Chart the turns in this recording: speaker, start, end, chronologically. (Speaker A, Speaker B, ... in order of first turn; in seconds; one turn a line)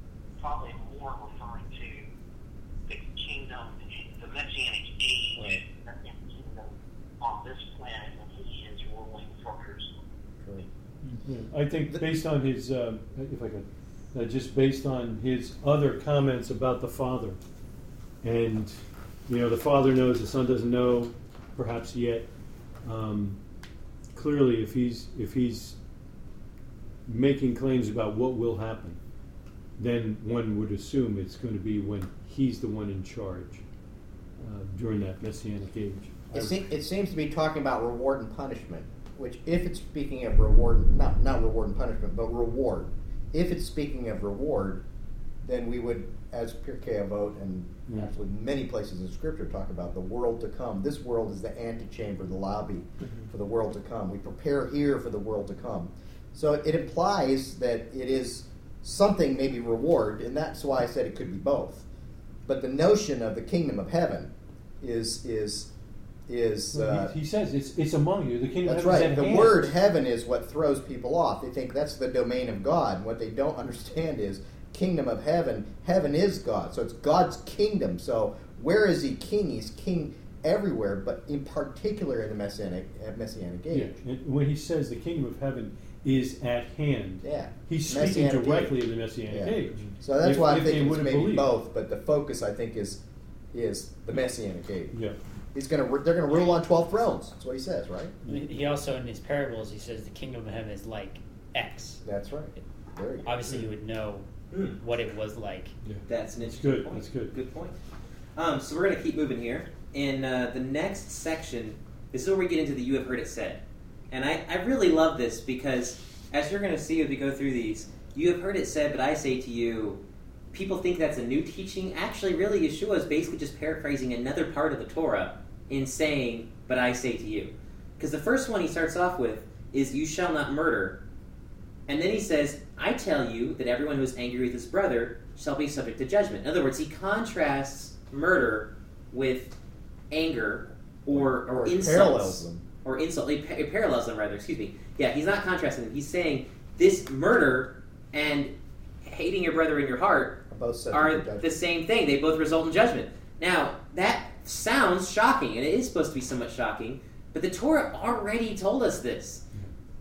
Speaker A: 0.4-2.1
Speaker A: 2.9-9.9
Speaker B: 10.4-10.7
Speaker C: 11.1-17.4
Speaker C: 18.2-22.3
Speaker C: 22.8-23.4
Speaker C: 24.1-25.8
Speaker C: 27.1-29.0
Speaker C: 29.8-33.6
Speaker C: 34.4-36.6
Speaker B: 36.3-44.8
Speaker B: 45.4-61.9
Speaker B: 62.5-65.7
Speaker B: 66.3-67.1
Speaker C: 66.7-69.7
Speaker B: 68.7-84.0
Speaker C: 83.7-91.5
Speaker B: 87.2-93.0
Speaker B: 93.5-95.0
Speaker B: 95.5-98.2
Speaker D: 98.3-102.0
Speaker B: 102.0-103.6
Speaker D: 103.2-104.3
Speaker E: 104.5-104.8
Speaker D: 104.8-105.7
Speaker C: 105.8-107.3
Speaker E: 106.1-107.8
Speaker E: 108.4-120.0
Speaker E: 120.5-131.0
Speaker E: 131.9-139.5
Speaker E: 140.1-148.5
Speaker B: 141.1-142.7
Speaker E: 149.0-159.4
Speaker B: 150.5-151.5